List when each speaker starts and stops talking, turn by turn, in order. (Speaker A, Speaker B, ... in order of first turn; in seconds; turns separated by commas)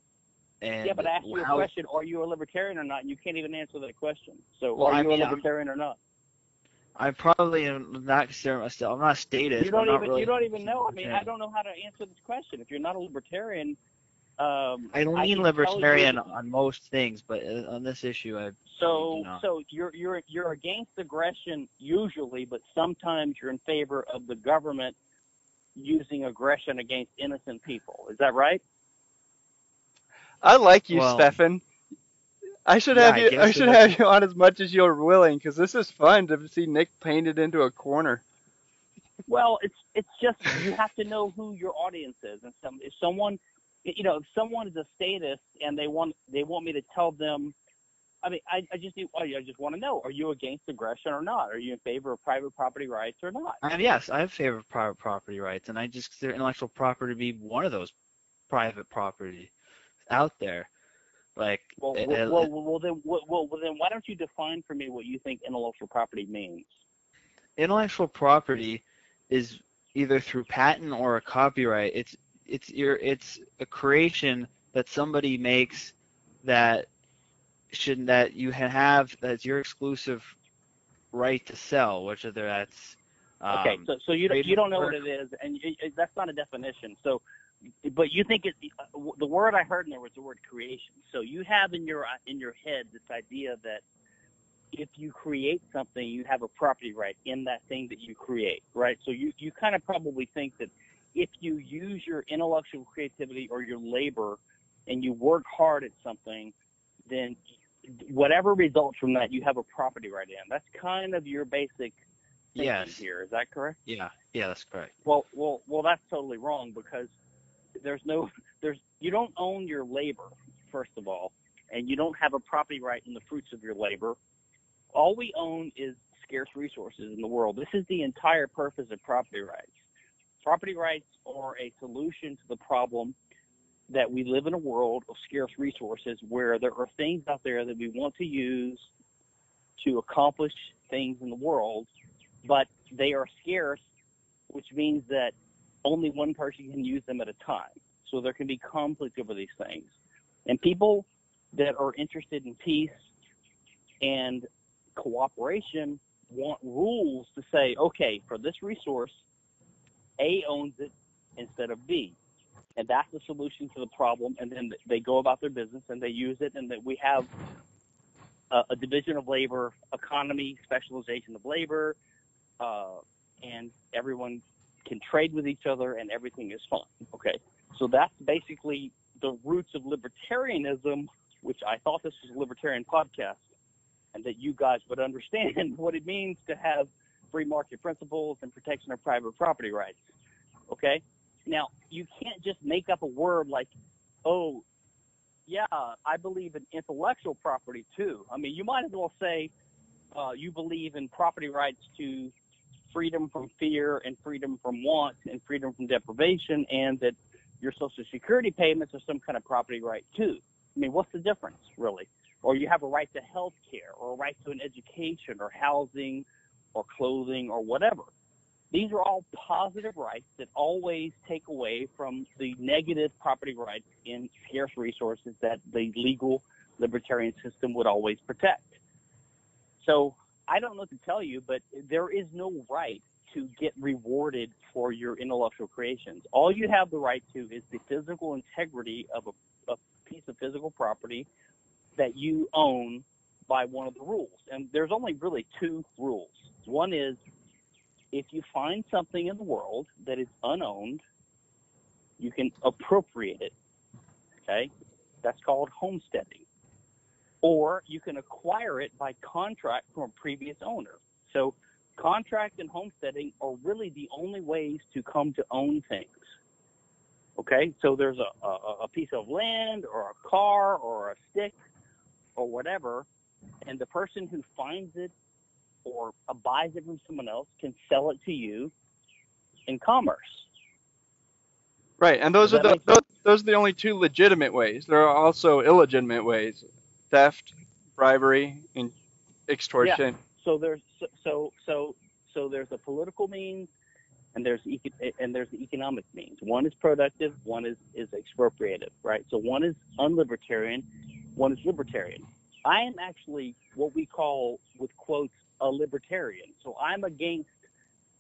Speaker A: 0.6-1.7, Speaker B: 0.8-6.0, Speaker A: 4.8-5.4, Speaker A: 7.0-11.3, Speaker B: 9.6-13.8, Speaker B: 14.4-16.2, Speaker A: 14.9-19.4, Speaker B: 18.7-25.0, Speaker B: 25.8-28.6, Speaker C: 30.4-31.6, Speaker A: 30.9-31.3, Speaker C: 32.7-38.2, Speaker A: 32.9-33.9, Speaker B: 39.3-47.5, Speaker B: 48.2-53.6, Speaker A: 53.6-57.9, Speaker A: 58.5-59.5, Speaker A: 60.1-60.7, Speaker A: 61.4-62.5, Speaker B: 61.8-66.7, Speaker A: 67.6-76.9, Speaker A: 77.7-80.4, Speaker A: 81.1-85.0, Speaker B: 83.5-87.2, Speaker B: 87.8-93.8, Speaker B: 94.7-106.5, Speaker B: 107.1-112.0, Speaker B: 112.5-113.8, Speaker A: 112.6-113.0, Speaker A: 113.9-114.9, Speaker B: 115.0-117.1, Speaker B: 117.8-124.2, Speaker B: 124.9-129.8, Speaker B: 130.4-133.2, Speaker B: 133.9-138.9, Speaker B: 139.8-141.9, Speaker B: 142.4-143.8, Speaker B: 144.5-149.9, Speaker B: 150.5-152.9, Speaker B: 154.0-159.2, Speaker B: 160.2-162.2, Speaker B: 162.8-167.3, Speaker B: 168.5-172.0, Speaker B: 172.6-183.4, Speaker B: 184.1-190.0, Speaker B: 190.7-193.7, Speaker B: 194.2-194.6, Speaker B: 195.5-199.5, Speaker B: 200.1-202.3, Speaker B: 202.9-218.1, Speaker B: 218.7-228.8, Speaker B: 229.8-241.3, Speaker B: 242.0-247.2, Speaker B: 248.1-251.0, Speaker B: 252.2-253.5, Speaker B: 254.5-254.7, Speaker B: 255.2-256.5, Speaker B: 257.4-266.2, Speaker B: 267.4-271.6, Speaker B: 272.4-273.1, Speaker B: 273.6-275.1, Speaker B: 275.9-278.7, Speaker B: 279.7-280.5, Speaker C: 282.0-288.9, Speaker B: 282.4-282.9, Speaker C: 289.5-290.2, Speaker B: 289.8-293.7, Speaker B: 294.4-307.5